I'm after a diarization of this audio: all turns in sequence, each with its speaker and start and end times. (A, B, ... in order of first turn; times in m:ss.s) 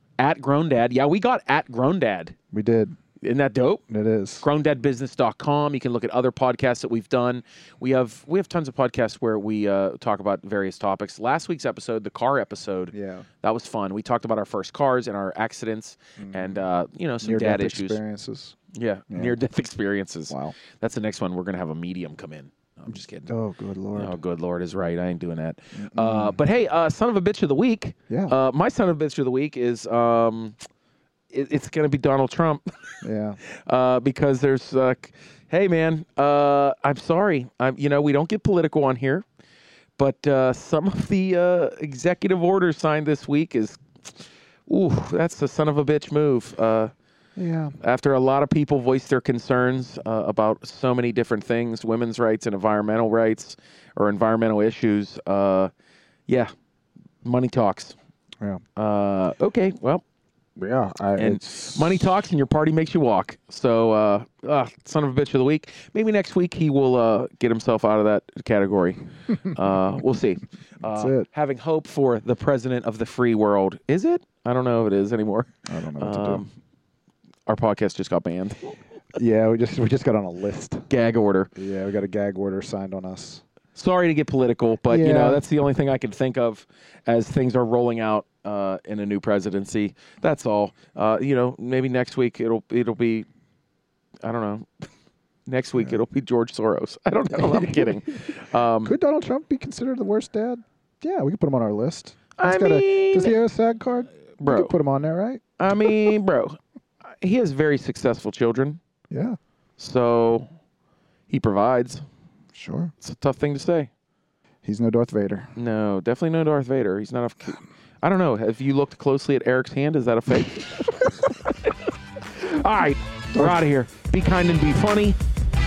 0:00.2-0:02.3 A
0:02.5-0:03.0 B
0:03.2-0:03.8 A
0:03.9-0:04.4 B
0:04.4-0:18.0 A
0:12.9-0:13.3 B
0:16.2-0:16.6 B
0:17.2-0:18.6 B
0:18.7-0:23.3 A
0:19.1-0:19.4 B
0:20.3-0:20.6 B
0:23.3-0:24.2 B
0:23.9-0:30.6 A
0:25.8-0:26.4 B
0:28.1-0:28.3 B
0:31.3-0:32.6 A
0:33.0-0:33.4 B
0:33.4-0:39.2 A
0:40.0-0:44.1 A
0:44.7-0:46.9 A
0:47.4-0:47.7 B
0:47.8-0:55.7 A
0:57.2-0:57.9 A
0:58.8-1:00.0 A
1:00.6-1:02.2 B
1:01.2-1:16.5 A
1:10.8-1:11.2 B
1:15.7-1:16.4 B
1:17.5-1:18.7 A
1:19.1-1:20.9 B
1:20.9-1:21.5 A
1:21.6-1:23.4 B
1:23.7-1:33.3 A
1:24.9-1:25.4 B
1:34.2-1:34.9 A
1:35.5-1:38.9 A
1:37.3-1:38.3 B
1:38.8-1:46.1 B
1:42.4-1:43.4 A
1:44.4-1:44.7 A
1:45.6-1:46.6 A
1:47.2-1:48.8 A
1:49.1-1:49.4 B
1:49.8-1:50.5 A
1:51.3-1:52.0 A
1:52.5-1:52.9 B
1:53.0-1:53.9 A
1:54.6-1:55.5 B
1:55.6-2:01.8 A
2:02.3-2:05.2 A